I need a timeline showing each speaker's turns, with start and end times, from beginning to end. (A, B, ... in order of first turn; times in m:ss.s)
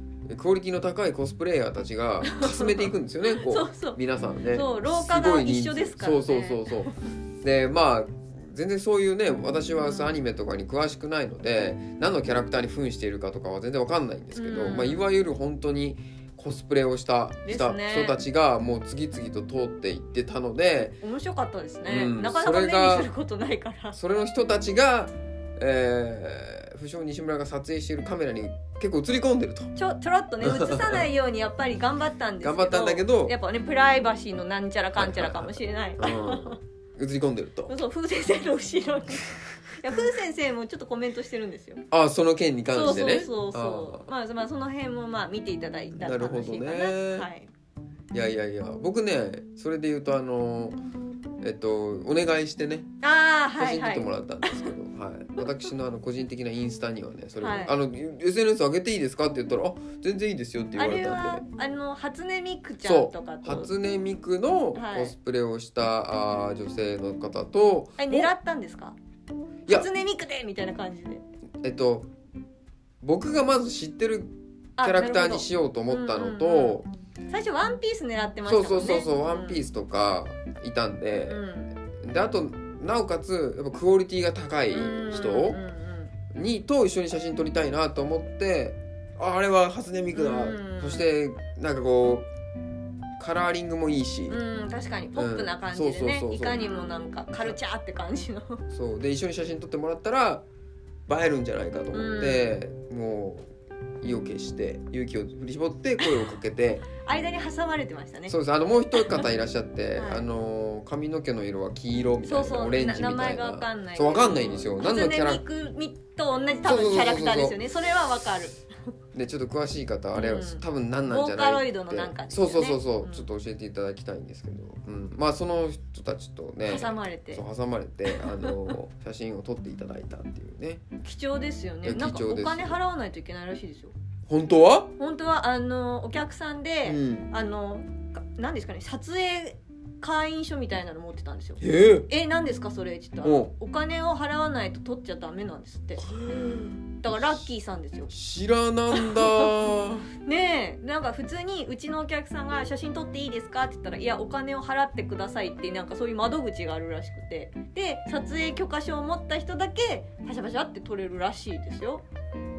0:00.3-0:21.0 A
0:02.2-0:04.0 B
0:04.5-0:06.9 B
0:09.8-0:10.2 B
0:14.3-0:15.0 B
0:17.4-0:18.2 B
0:21.0-0:24.0 B
0:21.9-0:23.1 A
0:23.9-0:29.7 A
0:29.8-0:36.6 B
0:30.4-0:31.0 A
0:32.4-0:33.3 A
0:35.0-0:37.8 A
0:37.7-0:41.8 B
0:41.9-0:44.1 A
0:42.7-0:47.5 B
0:45.9-0:47.3 A
0:48.1-0:50.8 A
0:51.4-0:52.9 A
0:53.0-0:54.7 B
0:53.5-1:01.4 A
0:57.4-0:57.7 B
1:00.8-1:03.7 B
1:02.8-1:08.3 A
1:04.7-1:05.1 B
1:08.0-1:09.0 B
1:09.7-1:11.2 B
1:11.6-1:12.1 A
1:13.0-1:16.9 A
1:14.8-1:19.6 B
1:18.4-1:25.6 A
1:21.3-1:21.7 B
1:24.7-1:26.1 B
1:26.3-1:32.3 A
1:30.1-1:31.1 B
1:33.2-1:34.4 A
1:34.3-1:38.6 B
1:35.2-1:36.7 A
1:38.7-1:40.4 A
1:41.1-1:43.5 A
1:41.9-1:42.5 B
1:44.0-1:46.9 A
1:46.0-1:46.3 B
1:47.0-1:48.3 B
1:48.3-1:55.4 A
1:49.0-1:49.3 B
1:49.9-1:50.2 B
1:52.2-1:58.6 B
1:56.6-1:57.6 A
1:59.1-2:10.8 A
2:00.1-2:03.3 B
2:06.6-2:07.4 B
2:08.1-2:08.5 B
2:11.0-2:13.9 B
2:11.8-2:12.8 A
2:14.3-2:14.9 A
2:15.0-2:26.0 B
2:16.9-2:17.3 A
2:21.6-2:22.1 A
2:23.2-2:23.5 A
2:26.0-2:27.4 A
2:27.0-2:28.1 B
2:28.1-2:30.1 A
2:28.9-2:29.5 B
2:30.2-2:42.0 B